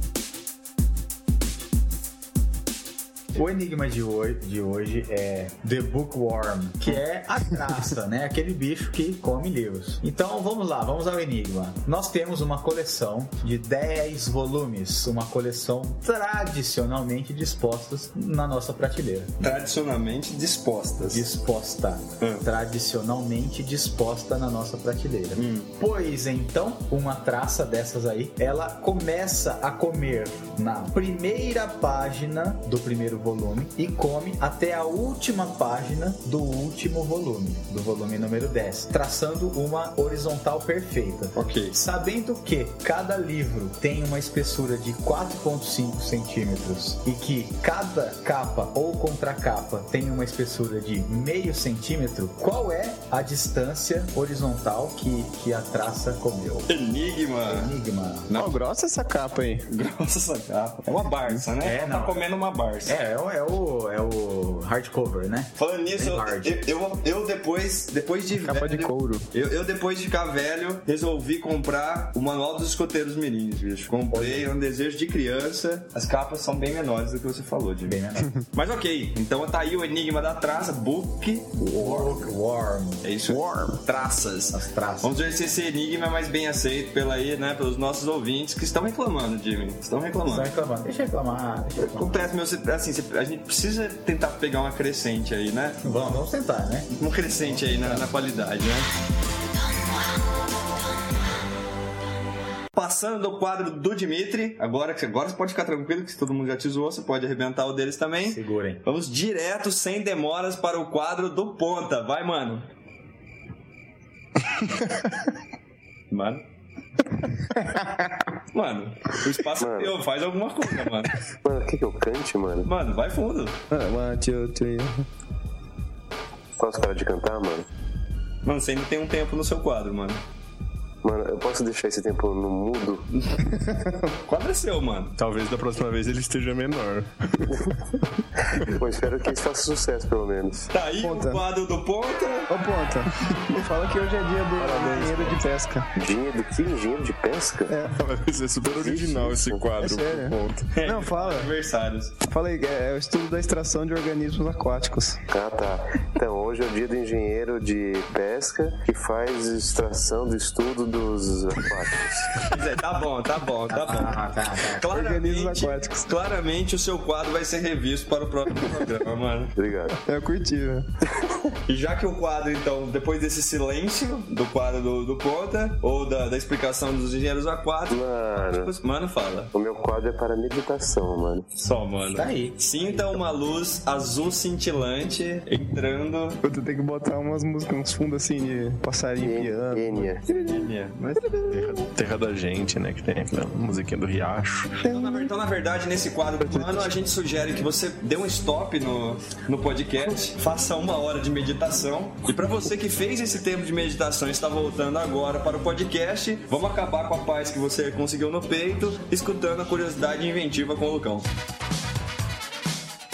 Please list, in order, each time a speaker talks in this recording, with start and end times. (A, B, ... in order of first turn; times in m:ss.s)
0:03.3-0:19.5 A
0:19.4-0:21.3 B
0:21.1-0:56.7 A
0:25.4-0:25.7 B
0:41.4-0:41.8 B
0:56.7-0:57.7 B
0:57.4-0:58.3 A
0:58.3-0:58.6 B
0:58.4-0:59.7 C
0:59.7-1:03.0 B
1:01.6-1:02.3 A
1:02.9-1:06.7 A
1:05.6-1:22.3 B
1:08.4-1:09.2 C
1:14.1-1:14.5 A
1:17.8-1:18.4 A
1:21.7-1:23.0 A
1:23.0-1:30.5 B
1:23.3-1:23.8 C
1:24.5-1:25.1 A
1:30.2-1:32.3 A
1:31.8-1:35.8 B
1:35.8-1:38.1 A
1:37.0-1:38.9 B
1:42.8-1:52.7 B
1:48.2-1:48.8 A
1:56.1-1:56.4 B
1:58.5-2:01.1 B
1:59.6-2:00.0 D
2:01.4-2:02.7 D
2:02.6-2:03.6 B
2:03.7-2:05.0 C
2:06.6-2:07.7 D
2:08.4-2:10.2 B
2:11.0-2:13.0 D
2:13.2-2:13.4 B
2:13.4-2:14.1 C
2:14.3-2:15.2 B
2:15.2-2:18.7 E
2:18.6-2:20.7 D
2:20.7-2:22.5 B
2:21.0-2:21.4 C
2:22.5-2:25.9 C
2:24.6-2:25.4 E
2:26.0-2:27.8 D
2:27.7-2:28.0 C
2:27.9-2:30.7 E
2:28.8-2:29.6 D
2:29.8-2:31.5 C
2:30.7-2:32.2 B
2:32.2-2:35.2 C
2:35.3-2:42.4 D
2:42.4-2:49.5 B
2:43.7-2:44.9 A
2:44.9-2:46.1 C
2:49.6-2:50.0 D
2:50.0-2:50.9 C
2:51.7-2:59.5 B
2:57.9-2:58.7 D
2:59.5-3:01.5 D
3:01.6-3:06.4 B
3:02.1-3:03.2 A
3:06.4-3:10.6 C
3:09.2-3:10.2 D
3:10.3-3:11.4 B
3:11.2-3:11.6 C
3:11.5-3:14.8 E
3:14.8-3:31.3 B
3:14.8-3:15.3 C
3:16.4-3:16.9 C